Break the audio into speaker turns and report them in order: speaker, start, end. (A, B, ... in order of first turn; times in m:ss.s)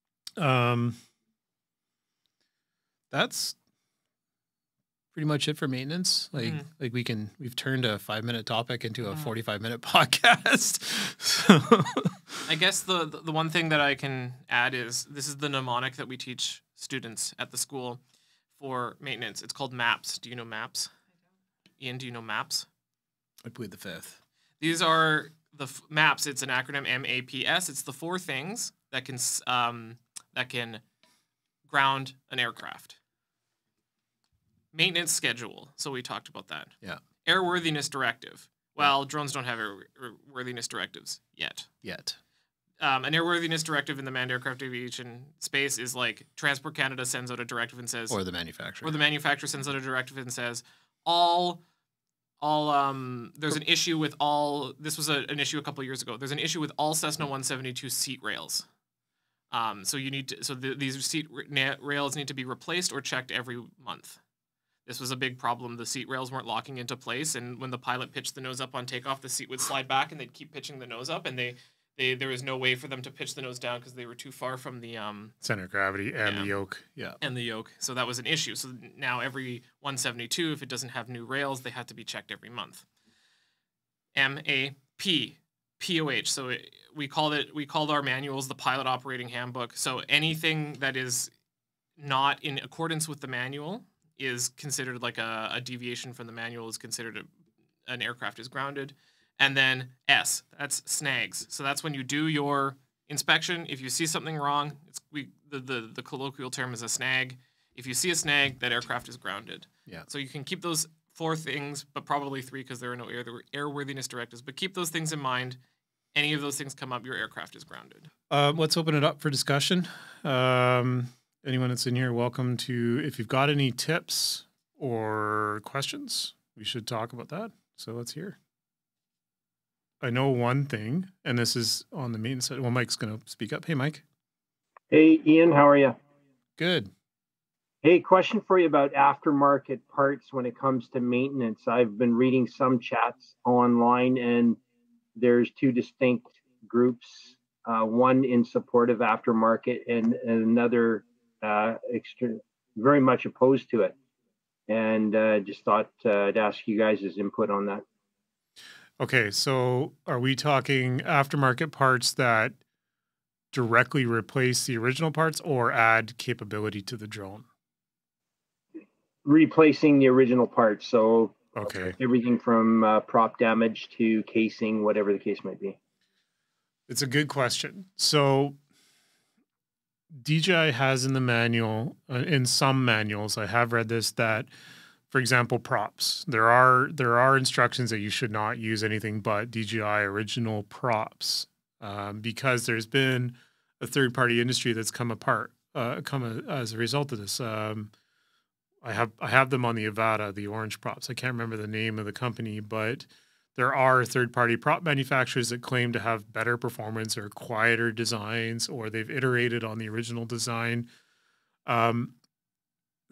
0:00.4-0:01.0 A
0:03.1-0:03.6 A
0:05.1-0:12.4 A
0:06.4-0:06.6 B
0:12.5-0:18.0 B
0:18.6-0:20.9 B
0:21.8-0:22.7 B
0:23.4-0:24.2 A
0:24.6-0:30.8 B
0:31.7-0:33.0 B
0:34.7-0:41.7 B
0:41.8-0:42.2 A
0:42.8-0:48.2 B
0:48.1-0:49.0 A
0:48.8-0:51.6 B
0:52.4-0:58.7 B
0:59.5-1:04.2 B
1:04.9-1:15.4 B
1:15.4-1:17.2 A
1:16.2-1:16.5 B
1:17.2-1:22.9 B
1:24.1-1:31.3 B
1:32.0-1:37.3 B
1:37.9-1:55.6 B
1:56.1-1:58.1 B
1:58.3-2:08.4 A
2:10.0-2:14.0 A
2:14.9-2:16.0 C
2:16.6-2:16.9 A
2:17.8-2:24.6 C
2:25.2-2:34.0 C
2:34.7-2:37.8 C
2:39.0-2:42.6 A
2:43.5-2:47.5 A
2:49.2-2:55.8 C
2:51.6-2:52.0 A
2:56.9-2:58.6 A
3:00.2-3:04.5 A
3:05.1-3:17.9 A
3:18.8-3:30.9 A
3:31.7-3:32.1 A